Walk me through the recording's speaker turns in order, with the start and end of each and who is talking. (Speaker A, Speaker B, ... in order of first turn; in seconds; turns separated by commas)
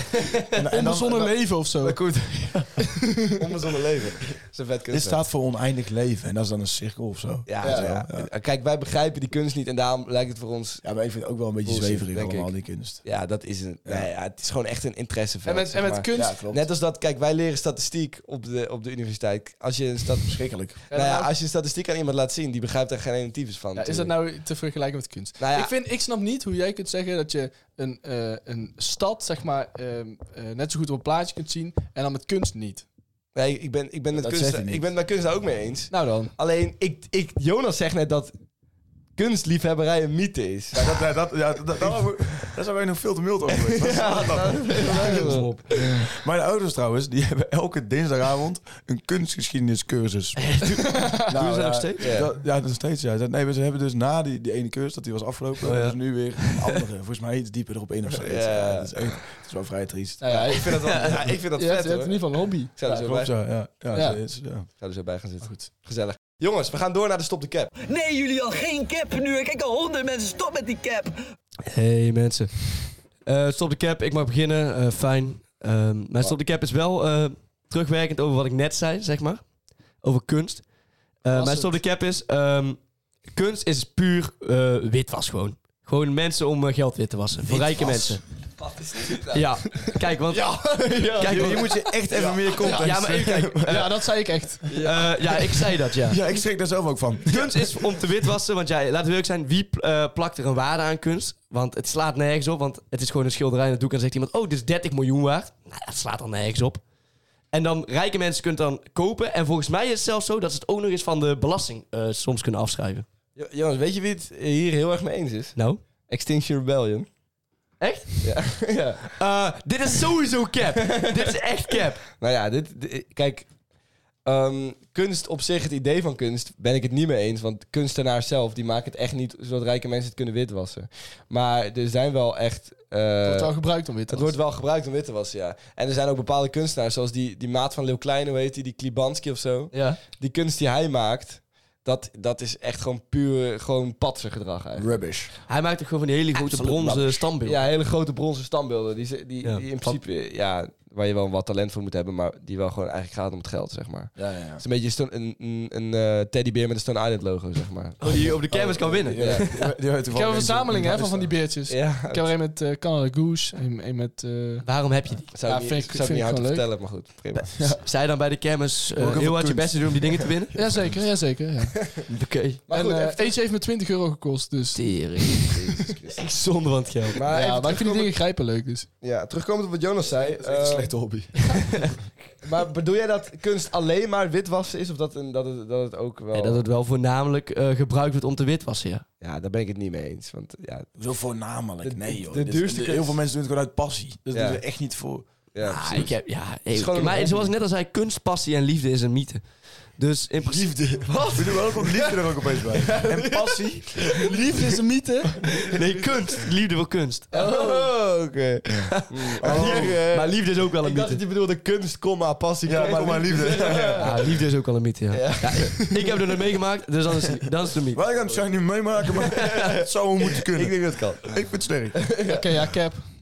Speaker A: 0.5-3.0, Speaker B: 0.5-2.0, Speaker C: 3.4-5.2, Speaker A: 4.9-8.3, Speaker C: 7.5-10.8, Speaker B: 7.6-7.9, Speaker A: 10.8-13.0, Speaker C: 11.6-20.4, Speaker B: 15.4-16.3, Speaker A: 16.1-16.6, Speaker A: 20.2-20.8, Speaker B: 20.9-21.3, Speaker C: 20.9-24.1, Speaker B: 23.7-32.8, Speaker C: 25.4-25.7, Speaker C: 33.3-38.3, Speaker A: 34.1-34.9, Speaker B: 35.9-36.3, Speaker C: 39.1-41.0, Speaker A: 40.7-61.1, Speaker C: 43.5-45.9, Speaker D: 44.8-45.7, Speaker D: 50.4-52.2, Speaker B: 50.8-51.3, Speaker C: 52.0-52.3, Speaker D: 55.6-56.8, Speaker C: 58.2-59.2, Speaker B: 60.2-62.8, Speaker C: 60.3-63.3, Speaker A: 62.8-64.7, Speaker B: 63.9-64.2, Speaker C: 64.8-67.7, Speaker E: 67.8-71.1, Speaker D: 71.7-79.4, Speaker D: 80.0-80.7, Speaker D: 81.2-88.2, Speaker B: 81.3-81.8, Speaker A: 87.4-88.2, Speaker C: 88.6-92.9, Speaker D: 89.3-91.8, Speaker A: 91.2-93.9, Speaker D: 92.5-94.0, Speaker B: 93.7-94.7, Speaker C: 94.7-95.1, Speaker D: 94.8-96.2, Speaker A: 95.9-97.8, Speaker D: 97.3-106.8, Speaker D: 107.5-113.0, Speaker C: 113.3-117.1, Speaker D: 115.5-115.8, Speaker D: 117.8-118.3, Speaker C: 118.2-119.1, Speaker D: 119.1-122.0, Speaker C: 120.9-121.3, Speaker C: 122.1-123.5, Speaker C: 124.2-133.6, Speaker B: 133.2-134.4, Speaker C: 134.1-144.9, Speaker D: 139.7-140.0, Speaker A: 144.8-145.3, Speaker D: 145.5-147.6, Speaker A: 146.3-147.3, Speaker C: 147.4-158.3, Speaker D: 149.4-150.0, Speaker A: 154.2-154.6, Speaker D: 158.0-159.7, Speaker A: 158.1-161.3, Speaker C: 159.2-159.5, Speaker B: 160.1-164.7, Speaker C: 161.7-162.3, Speaker D: 164.6-165.3, Speaker C: 165.3-167.5, Speaker B: 165.4-166.7, Speaker D: 167.5-170.6, Speaker A: 167.6-167.8, Speaker A: 168.9-170.2, Speaker B: 170.5-171.8, Speaker D: 172.1-172.6, Speaker C: 172.7-173.3, Speaker B: 172.7-175.3, Speaker D: 174.7-177.2, Speaker C: 175.4-176.2, Speaker C: 177.1-178.1, Speaker B: 177.3-178.9, Speaker C: 179.0-180.9, Speaker A: 180.1-181.5, Speaker D: 181.5-181.8, Speaker C: 182.4-186.6, Speaker D: 186.3-189.0, Speaker C: 189.2-190.9, Speaker A: 191.0-195.3, Speaker C: 191.8-193.2, Speaker C: 194.3-194.6, Speaker C: 195.5-196.1, Speaker D: 195.6-200.8, Speaker C: 196.7-197.5, Speaker A: 200.4-204.2, Speaker C: 201.0-204.3, Speaker B: 204.1-205.3, Speaker D: 205.6-207.4, Speaker C: 205.6-206.0, Speaker C: 207.3-214.3, Speaker B: 207.3-207.8, Speaker A: 208.9-210.0, Speaker D: 208.9-211.2, Speaker A: 212.7-214.2, Speaker D: 213.7-218.0, Speaker C: 215.1-215.9, Speaker A: 217.9-222.1, Speaker C: 218.2-218.4, Speaker C: 219.2-221.4, Speaker D: 219.2-219.6, Speaker C: 222.0-222.5, Speaker B: 222.2-223.1